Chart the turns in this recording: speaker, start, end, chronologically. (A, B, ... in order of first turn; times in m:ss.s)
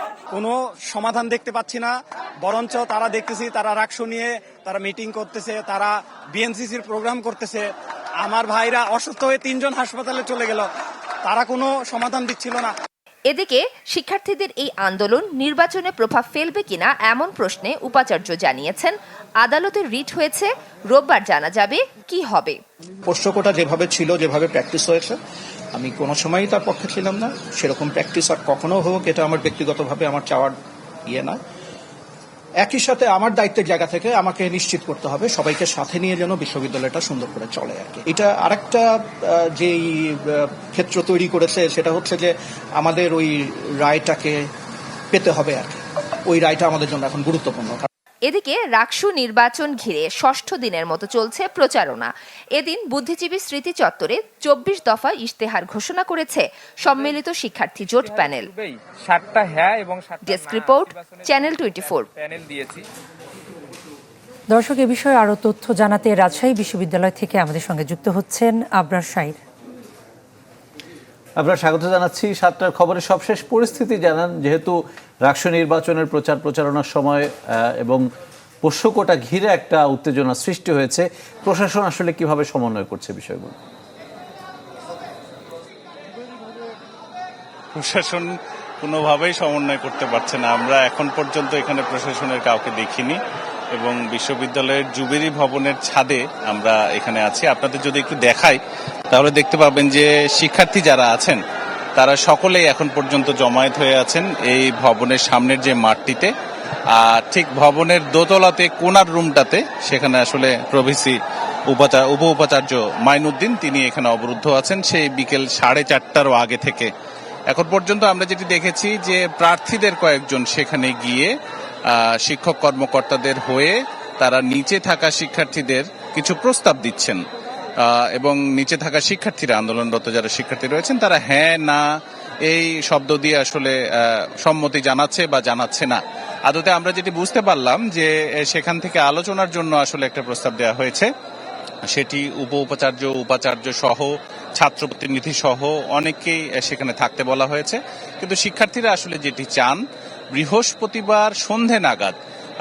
0:00.3-0:07.7 A
0:08.2-0:10.7 A
0:11.2-0:12.7 A
0:13.3-0:22.6 B
0:23.1-0:25.2 C
0:25.7-0:30.6 C
0:31.1-0:31.4 C
0:32.6-0:44.5 C
0:45.1-0:47.9 C
0:48.2-0:58.5 B
0:56.9-0:57.2 D
0:58.0-1:02.8 D
1:00.2-1:02.0 B
1:04.5-1:09.4 E
1:11.4-1:17.3 F
1:18.6-1:23.6 F
1:27.8-1:33.2 G
1:33.7-1:38.6 G
1:39.1-1:41.4 G
1:42.0-1:46.3 G
1:46.9-1:51.2 G
1:51.7-1:56.9 G
1:57.5-2:01.3 G
2:01.9-2:07.2 G
2:07.8-2:11.8 G
2:12.4-2:21.1 G
2:21.9-2:29.8 G
2:30.3-2:32.2 G